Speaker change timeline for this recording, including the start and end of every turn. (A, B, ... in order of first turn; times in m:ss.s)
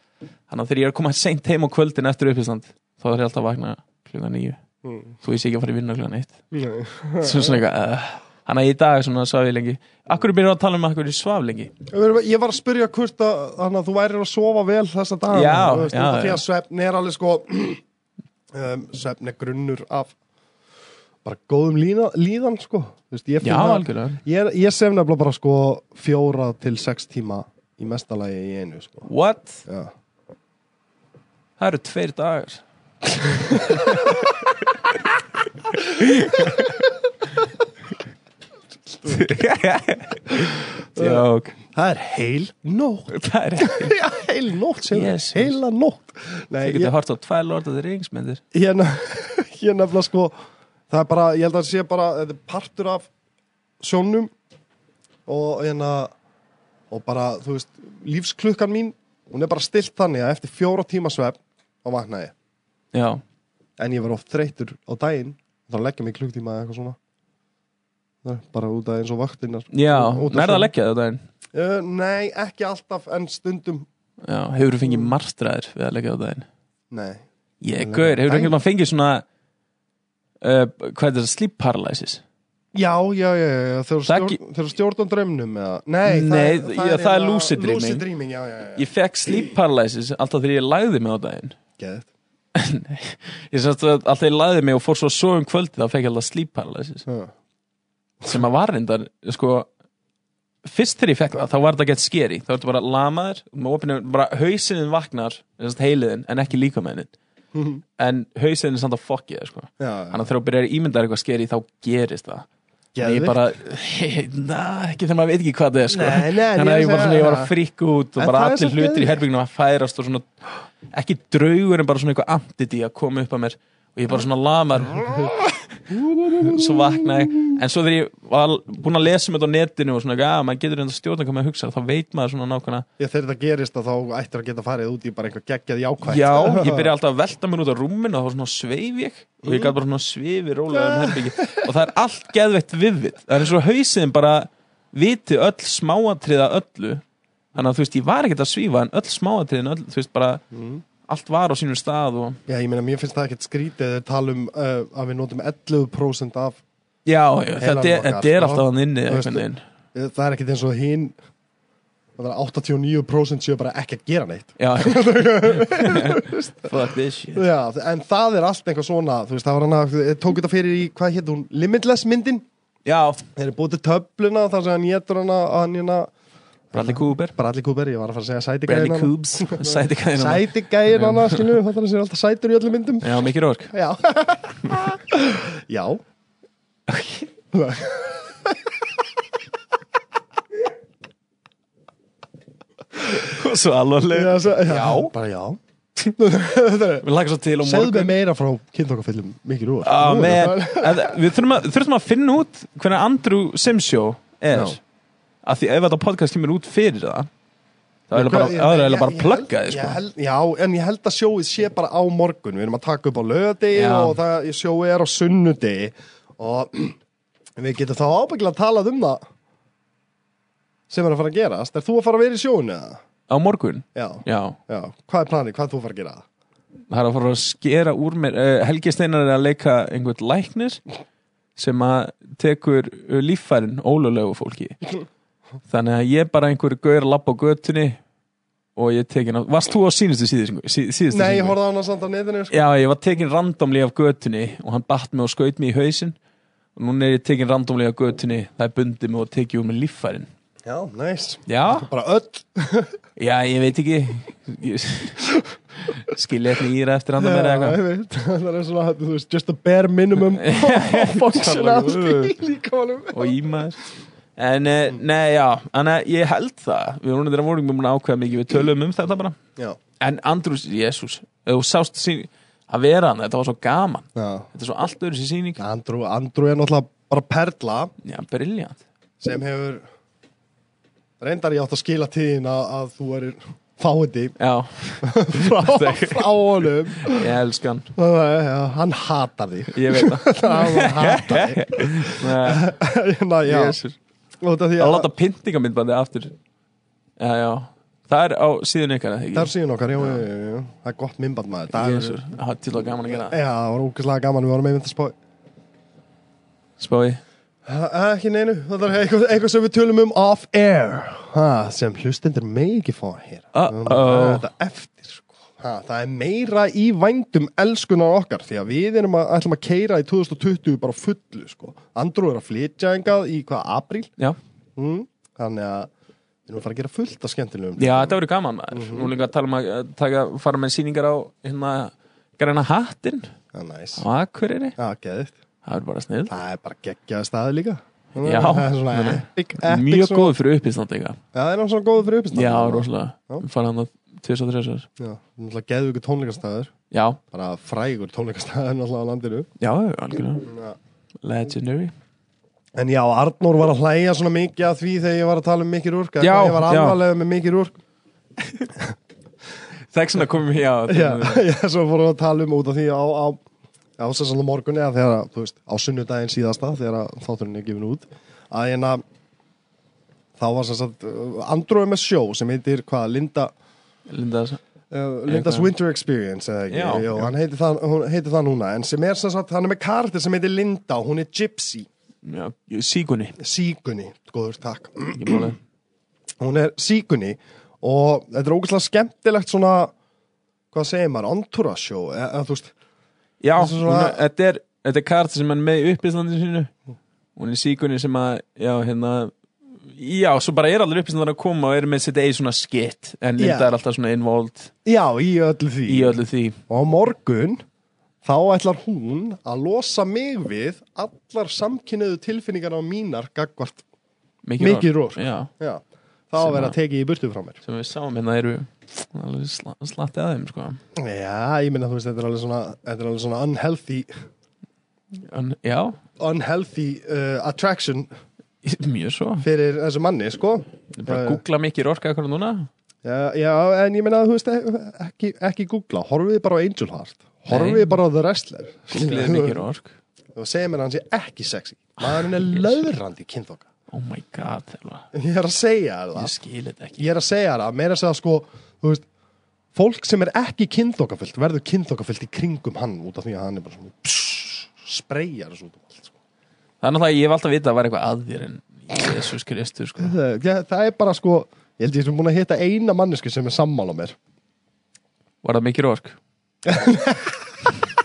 0:00.5-0:04.6 A
0:04.8-0:05.2 B
0:05.2-0:06.4 A
0:06.5-0:07.6 B
0:07.2-0:11.7 A
0:11.9-0:17.8 B
0:15.3-0:16.4 A
0:18.5-0:20.1 B
0:21.2-0:29.1 B
0:23.4-0:24.2 A
0:29.1-0:29.6 A
0:29.6-0:29.9 B
0:31.6-0:32.6 A
0:33.2-0:34.3 A
0:33.3-0:34.2 B
0:35.7-0:36.9 A
0:36.0-0:36.8 B
0:39.0-0:39.4 B
0:39.0-0:41.6 A
0:40.4-0:46.9 B
0:43.1-0:44.0 A
0:44.9-0:45.6 A
0:46.6-0:48.4 A
0:48.5-0:50.3 B
0:50.9-0:53.1 B
0:53.8-0:54.3 B
0:55.2-0:56.1 B
0:56.9-1:02.3 B
1:02.9-1:03.2 A
1:03.8-1:07.0 B
1:08.2-1:10.7 B
1:09.7-1:11.2 A
1:11.5-1:13.9 B
1:14.2-1:16.5 A
1:14.8-1:15.1 B
1:16.9-1:17.2 B
1:17.6-1:19.2 A
1:17.8-1:18.6 B
1:20.4-1:22.2 A
1:22.7-1:29.5 B
1:24.1-1:24.4 A
1:26.0-1:28.0 A
1:28.8-1:31.6 A
1:31.8-1:32.1 B
1:32.5-1:37.0 A
1:37.1-1:37.3 B
1:38.3-1:39.7 A
1:40.6-1:47.1 A
1:47.5-1:47.8 B
1:48.0-1:52.5 A
1:49.8-1:50.2 B
1:52.9-1:53.4 B
1:53.0-2:00.3 A
1:55.9-1:57.5 B
1:58.2-1:59.2 B
2:00.9-2:12.8 A
2:05.9-2:07.5 B
2:13.0-2:16.9 B
2:16.0-2:27.0 A
2:19.4-2:19.8 B
2:20.7-2:21.7 B
2:27.5-2:30.4 A
2:30.5-2:30.8 B
2:31.1-2:32.4 A
2:32.5-2:36.6 B
2:37.0-2:39.6 A
2:37.6-2:41.2 B
2:42.2-2:46.7 B
2:44.6-2:47.4 A
2:47.3-2:52.4 B
2:52.8-2:53.2 A
2:53.4-2:56.1 B
2:56.7-3:06.0 B
2:56.7-2:57.3 A
2:58.7-3:01.5 A
3:03.0-3:03.7 A
3:06.9-3:07.3 A
3:07.5-3:09.0 B
3:13.0-3:15.1 A
3:14.1-3:15.6 B
3:16.1-3:17.0 B
3:17.0-3:18.1 A
3:17.6-3:21.2 B
3:19.8-3:24.8 A
3:24.5-3:24.8 B
3:25.4-3:27.3 A
3:28.1-3:30.0 A
3:28.1-3:37.0 B
3:33.7-3:34.2 A
3:37.6-3:39.2 B
3:40.9-3:43.0 B
3:43.3-3:44.6 A
3:43.9-3:46.2 B
3:46.9-3:50.8 A
3:51.6-3:54.8 A
3:55.7-3:58.0 A
3:58.8-4:01.6 A
4:01.1-4:02.6 B
4:02.5-4:06.2 A
4:06.8-4:10.3 A
4:10.6-4:13.0 B
4:11.5-4:11.9 A
4:13.2-4:15.3 A
4:15.9-4:17.8 A
4:17.2-4:23.3 B
4:20.2-4:22.4 A
4:23.1-4:29.4 A
4:30.0-4:35.6 A
4:34.2-4:34.5 B
4:35.6-4:37.9 B
4:38.0-4:38.8 A
4:39.2-4:39.8 B
4:41.2-4:44.4 B
4:44.4-4:46.4 A
4:45.0-4:47.3 B
4:46.9-4:47.9 A
4:48.0-4:53.8 B
4:49.7-4:52.7 A
4:53.4-4:54.0 A
4:54.4-4:55.1 B
4:54.8-4:56.3 A
4:57.2-5:00.2 A
4:59.3-5:02.2 B
5:01.7-5:03.4 A
5:03.1-5:05.1 B
5:06.8-5:07.2 A
5:07.6-5:24.1 B
5:13.5-5:14.5 A
5:24.8-5:25.9 B
5:26.5-5:28.2 B
5:27.8-5:33.3 A
5:28.7-5:29.1 B
5:33.5-5:34.0 B
5:34.0-5:34.8 A
5:34.8-5:35.4 B
5:35.6-5:36.3 A
5:36.3-5:40.3 B
5:38.2-5:41.2 A
5:41.3-5:43.4 B
5:42.3-5:44.9 A
5:45.0-5:46.7 B
5:46.9-5:47.2 A
5:47.3-5:49.5 B
5:49.6-5:50.5 A
5:50.5-5:50.8 B
5:51.2-5:51.9 A
5:52.8-5:57.8 B
5:56.2-5:57.0 A
5:59.9-6:01.4 A
6:00.9-6:03.4 B
6:04.0-6:09.0 B
6:10.4-6:13.5 B
6:14.1-6:14.6 A
6:14.9-6:21.9 B
6:15.2-6:15.7 A
6:16.7-6:17.3 A
6:22.2-6:23.4 A
6:23.4-6:25.5 B
6:25.1-6:25.6 A
6:26.4-6:29.9 B
6:30.7-6:32.7 B
6:33.4-6:36.7 A
6:33.6-6:34.2 B
6:37.4-6:39.3 A
6:39.9-6:44.7 A
6:43.4-6:43.7 B
6:44.8-6:47.6 B
6:45.9-6:46.6 A
6:48.2-6:53.8 B
6:54.4-6:55.5 A
6:54.6-6:57.6 B
6:56.4-6:56.8 A
6:57.6-7:00.8 A
7:01.0-7:04.1 B
7:05.2-7:06.0 A
7:06.2-7:08.1 B
7:08.6-7:09.4 A
7:09.4-7:11.4 B
7:10.9-7:12.7 A
7:13.0-7:19.6 B
7:17.5-7:18.0 A
7:18.9-7:19.9 A
7:20.3-7:23.6 B
7:22.2-7:22.8 A
7:23.9-7:25.0 A
7:25.1-7:26.3 B
7:26.1-7:27.0 A
7:27.0-7:29.0 B
7:29.7-7:36.1 B
7:36.8-7:40.1 A
7:40.0-7:44.2 B
7:45.4-7:46.2 A
7:46.6-7:47.5 B